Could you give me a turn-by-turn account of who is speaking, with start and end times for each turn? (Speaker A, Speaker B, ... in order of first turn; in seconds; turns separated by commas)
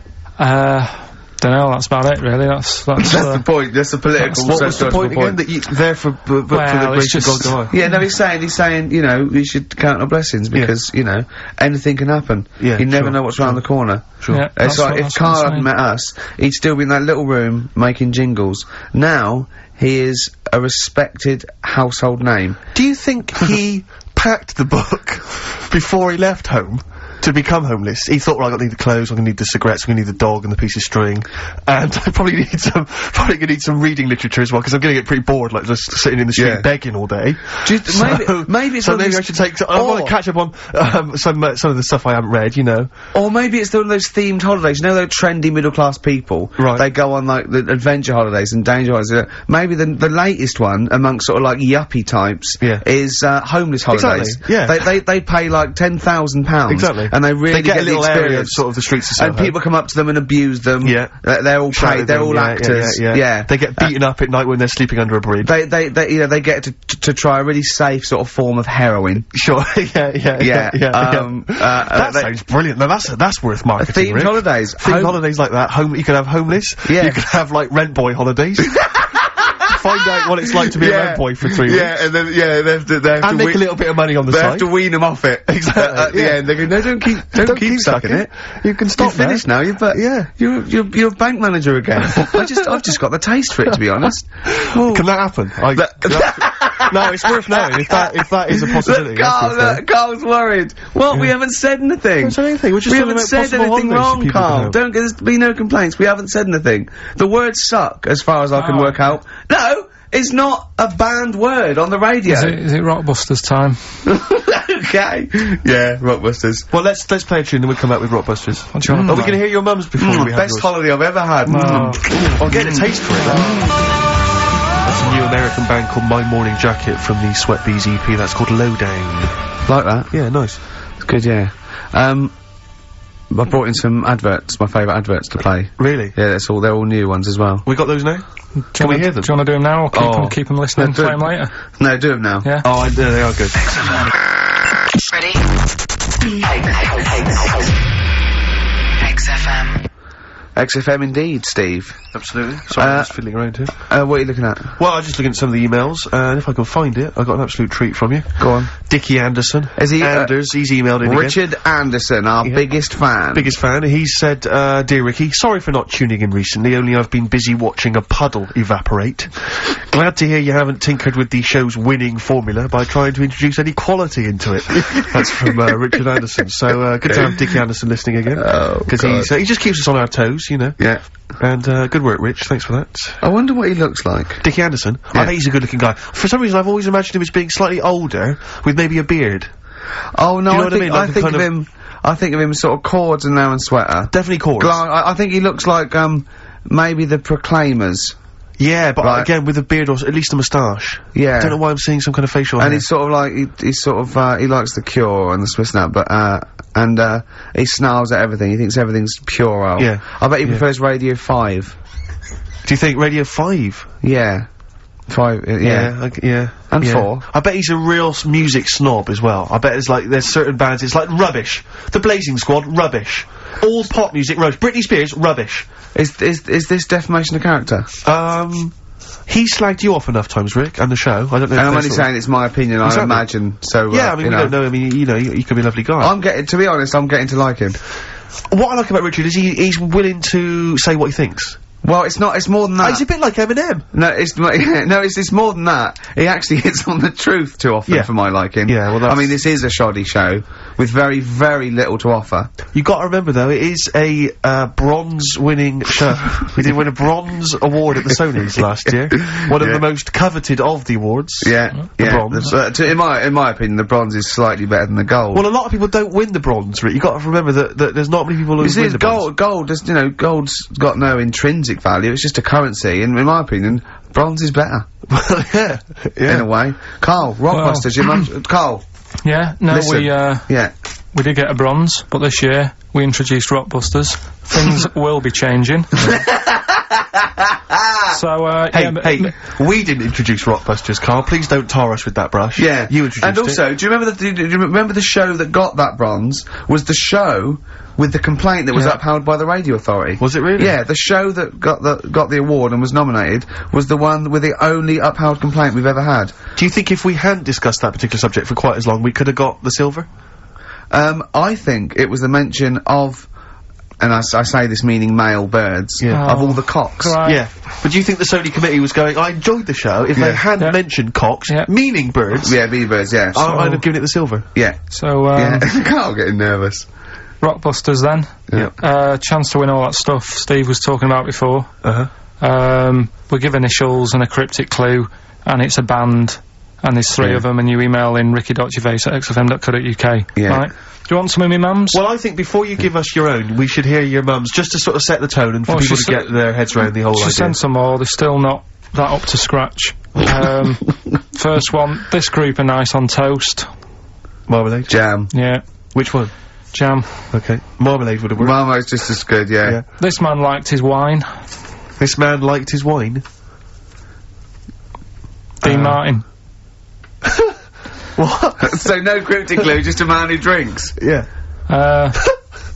Speaker A: 0.4-3.4, Speaker B: 3.0-5.4, Speaker A: 4.2-4.7, Speaker C: 4.4-7.7, Speaker A: 6.5-7.9, Speaker B: 7.7-22.6, Speaker C: 12.6-13.6, Speaker C: 14.2-14.5, Speaker A: 14.3-15.7, Speaker C: 22.7-42.9, Speaker B: 36.4-36.6, Speaker B: 37.6-40.1, Speaker B: 43.1-58.6, Speaker C: 46.6-46.8, Speaker C: 52.6-52.8, Speaker C: 53.9-54.9, Speaker C: 56.7-59.5, Speaker B: 59.2-63.9, Speaker C: 60.8-65.5, Speaker B: 65.4-69.3, Speaker C: 69.3-78.8, Speaker B: 70.4-72.3, Speaker B: 73.8-75.2, Speaker B: 76.8-77.2, Speaker B: 78.7-83.6, Speaker C: 79.7-81.9, Speaker C: 83.2-84.7, Speaker B: 84.3-88.3, Speaker C: 85.5-86.5, Speaker C: 87.3-90.3, Speaker B: 89.0-95.1, Speaker C: 92.1-92.8, Speaker C: 94.5-99.8, Speaker B: 95.7-112.6, Speaker C: 102.2-104.8, Speaker A: 108.5-109.0, Speaker A: 112.2-113.8, Speaker B: 114.0-116.7, Speaker C: 116.7-120.7, Speaker A: 118.7-119.4, Speaker B: 118.9-119.3, Speaker B: 120.0-123.8, Speaker A: 121.5-122.0, Speaker C: 121.5-123.6, Speaker C: 124.8-129.4, Speaker B: 129.7-130.1, Speaker C: 130.1-130.6, Speaker B: 131.0-132.3, Speaker B: 133.3-137.6, Speaker C: 135.8-136.1, Speaker C: 137.6-139.3, Speaker A: 138.7-141.5, Speaker C: 139.9-140.3, Speaker B: 140.8-142.5, Speaker A: 142.4-142.7, Speaker C: 142.6-144.1, Speaker D: 145.0-145.5, Speaker D: 146.3-147.8, Speaker D: 149.0-149.8, Speaker B: 150.6-152.0, Speaker C: 152.1-153.7, Speaker B: 152.7-153.1, Speaker B: 153.8-154.7, Speaker C: 154.8-161.4, Speaker B: 158.4-158.7, Speaker B: 159.8-160.3, Speaker B: 161.0-163.5, Speaker C: 163.3-180.8, Speaker B: 177.1-177.4, Speaker B: 178.4-179.3, Speaker B: 180.8-181.0, Speaker C: 181.4-183.2, Speaker B: 183.2-184.4, Speaker C: 184.4-189.5, Speaker B: 190.1-198.2, Speaker C: 190.5-191.5, Speaker C: 194.1-194.8, Speaker C: 198.6-202.8, Speaker B: 199.0-199.3, Speaker B: 201.1-201.6, Speaker B: 202.6-211.8, Speaker C: 209.8-210.6, Speaker C: 212.6-213.9, Speaker B: 214.0-214.5, Speaker B: 215.1-215.9, Speaker C: 215.6-225.7, Speaker B: 216.6-217.2, Speaker B: 225.9-227.9, Speaker C: 228.0-228.7, Speaker C: 229.3-232.1, Speaker B: 231.5-234.5, Speaker C: 232.8-233.2, Speaker C: 233.9-236.1, Speaker B: 236.0-237.8, Speaker C: 238.5-241.6, Speaker B: 241.8-243.0, Speaker C: 242.8-243.8, Speaker B: 243.9-252.5, Speaker C: 247.9-248.1, Speaker C: 248.7-249.3, Speaker C: 252.7-262.6, Speaker B: 259.3-259.8, Speaker B: 261.4-265.4, Speaker C: 265.3-269.3, Speaker B: 268.6-274.8, Speaker C: 275.1-276.4, Speaker B: 276.2-278.8, Speaker A: 277.5-278.3, Speaker A: 279.2-280.5, Speaker B: 279.7-280.7, Speaker A: 281.1-285.9, Speaker B: 286.0-288.2, Speaker A: 288.1-289.3, Speaker C: 288.7-293.6, Speaker B: 292.6-306.3, Speaker C: 298.7-299.0, Speaker C: 300.2-300.7, Speaker C: 306.6-310.1, Speaker B: 310.9-313.3, Speaker B: 314.0-317.2, Speaker C: 316.0-316.2, Speaker A: 316.1-317.4, Speaker C: 317.2-322.6, Speaker B: 320.1-320.4, Speaker A: 320.6-321.7, Speaker B: 322.4-323.7, Speaker C: 323.3-324.4, Speaker A: 324.9-325.6, Speaker B: 325.3-326.9, Speaker A: 327.4-331.7, Speaker C: 331.8-332.1, Speaker A: 332.4-342.0, Speaker B: 340.4-340.7, Speaker C: 341.9-347.6, Speaker A: 345.7-346.3, Speaker A: 347.1-353.7, Speaker C: 354.5-354.9, Speaker B: 354.9-355.3, Speaker A: 355.3-355.6, Speaker C: 355.9-356.3, Speaker A: 356.7-357.1, Speaker C: 357.3-358.5, Speaker B: 358.4-359.8, Speaker A: 360.0-361.3, Speaker C: 362.0-363.2, Speaker C: 365.6-366.0, Speaker A: 365.6-366.2, Speaker C: 367.2-367.6, Speaker C: 368.1-368.9, Speaker B: 368.6-370.9, Speaker C: 371.0-371.3, Speaker A: 371.7-372.2